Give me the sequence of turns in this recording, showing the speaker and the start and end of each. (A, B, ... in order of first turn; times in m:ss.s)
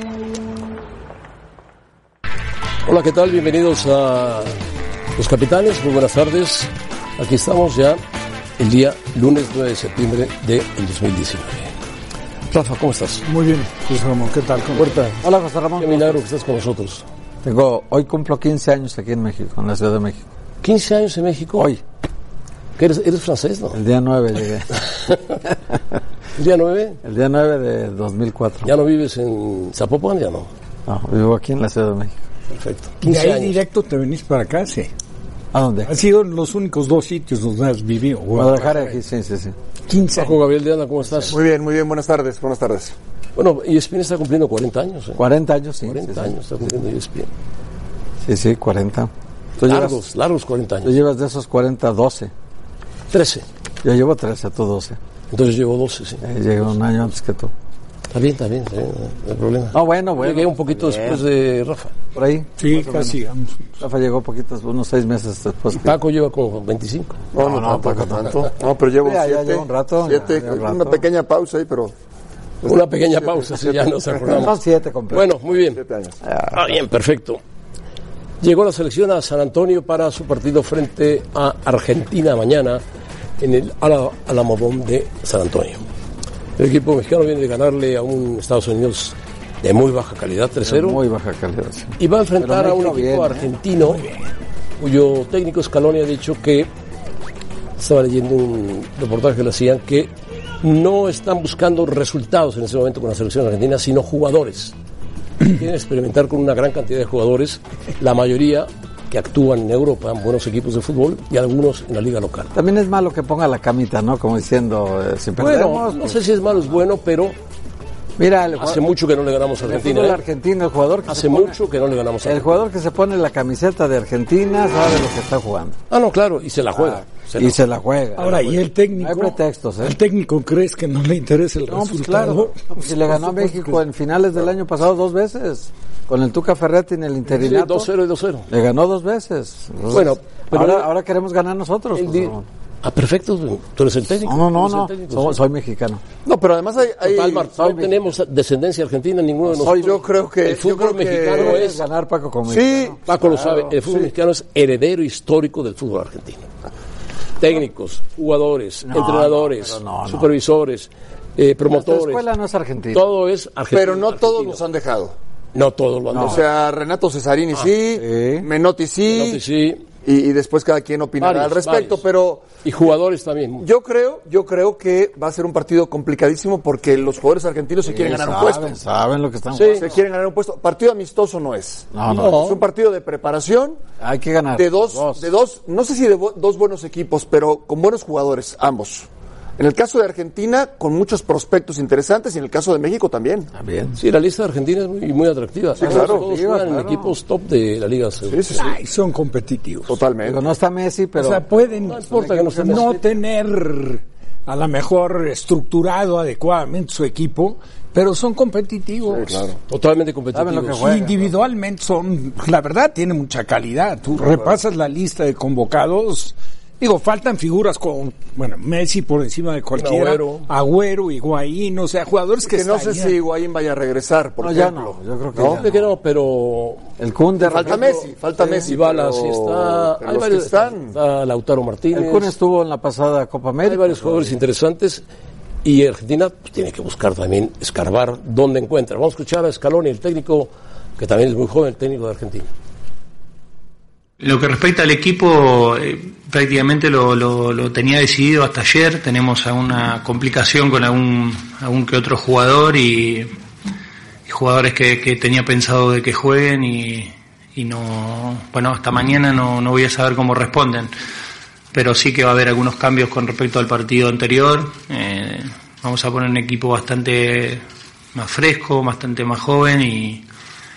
0:02.8-0:04.5 A
0:05.2-0:08.0 A
0:08.6-0:11.7 A
0:12.5-0:13.2 A
0:13.2-0:15.0 B
0:14.7-0:15.2 A
0:15.2-0:16.2 C
0:15.8-0:17.0 A
0:17.4-0:20.2 C
0:20.6-0:21.7 A
0:22.8-0:23.8 A
0:23.7-0:24.7 C
0:24.9-0:25.2 A
0:26.4-0:27.0 A
0:27.0-0:28.7 C
0:28.6-0:30.5 A
0:30.8-0:32.1 C
0:32.5-0:33.6 A
0:33.0-0:34.9 B
0:35.5-0:35.9 C
0:35.8-0:38.9 B
0:38.3-0:39.5 C
0:39.9-0:40.4 B
0:40.2-0:41.4 A
0:41.3-0:42.9 D
0:43.4-0:45.2 A
0:45.2-0:46.3 C
0:45.8-0:47.3 A
0:48.2-0:50.0 C
0:49.6-0:50.9 A
0:50.8-0:52.3 C
0:53.1-0:53.4 A
0:53.8-0:55.0 C
0:55.3-0:56.2 A
0:56.2-0:57.5 C
0:58.1-1:01.9 A
0:59.7-1:01.2 C
1:02.1-1:03.2 C
1:02.6-1:03.7 B
1:03.8-1:06.0 C
1:05.8-1:07.2 A
1:07.3-1:11.9 D
1:07.3-1:08.5 C
1:09.0-1:11.0 C
1:12.6-1:14.6 A
1:12.6-1:14.4 D
1:14.3-1:15.3 C
1:15.1-1:15.8 A
1:15.7-1:16.2 D
1:16.3-1:16.6 C
1:16.5-1:17.4 A
1:18.4-1:22.8 A
1:23.4-1:25.8 A
1:26.6-1:31.0 A
1:30.6-1:33.5 C
1:32.0-1:34.0 A
1:34.8-1:36.7 A
1:37.8-1:40.1 A
1:40.6-1:44.7 A
1:45.4-1:52.5 A
1:52.5-1:56.2 C
1:55.4-1:57.3 A
1:58.2-1:58.8 C
1:58.6-2:00.2 A
1:59.6-2:01.6 C
2:01.1-2:02.6 A
2:02.2-2:05.8 C
2:05.9-2:07.6 A
2:06.8-2:10.0 C
2:08.2-2:13.8 B
2:11.7-2:17.9 C
2:17.3-2:18.5 A
2:18.5-2:22.4 C
2:19.9-2:20.9 A
2:22.0-2:25.4 A
2:24.2-2:26.0 C
2:26.2-2:27.5 D
2:27.0-2:31.8 A
2:27.5-2:28.0 C
2:29.5-2:30.0 C
2:29.5-2:31.7 D
2:31.2-2:34.1 C
2:32.5-2:33.0 D
2:33.1-2:36.5 A
2:37.4-2:42.2 A
2:38.8-2:40.3 C
2:41.7-2:43.0 C
2:42.9-2:44.6 A
2:43.7-2:45.1 D
2:45.5-2:46.5 A
2:46.1-2:46.4 C
2:46.2-2:49.4 D
2:47.9-2:48.5 C
2:49.1-2:49.8 A
2:50.0-2:52.6 D
2:51.2-2:52.0 A
2:52.6-2:53.6 A
2:53.6-2:58.8 D
2:57.9-2:59.9 C
2:59.5-2:59.8 A
2:59.8-3:03.8 D
3:01.9-3:02.5 C
3:02.1-3:02.6 A
3:04.0-3:05.2 C
3:04.5-3:13.5 D
3:13.5-3:14.0 C
3:14.0-3:18.4 A
3:15.8-3:16.2 D
3:15.8-3:17.2 C
3:18.2-3:18.7 D
3:18.5-3:20.0 B
3:19.9-3:20.4 D
3:20.2-3:23.0 C
3:21.2-3:29.4 B
3:21.8-3:23.0 A
3:29.1-3:29.6 D
3:29.7-3:30.9 A
3:30.3-3:31.3 C
3:30.8-3:43.2 B
3:39.8-3:40.5 A
3:42.4-3:45.6 D
3:44.4-3:45.9 C
3:45.5-3:46.8 A
3:47.0-3:48.7 C
3:47.4-3:48.1 A
3:47.4-3:51.0 D
3:48.6-3:52.3 A
3:51.9-3:54.3 C
3:53.6-3:55.0 A
3:55.6-4:02.5 A
4:04.2-4:13.3 E
4:14.3-4:20.9 E
4:21.7-4:30.2 E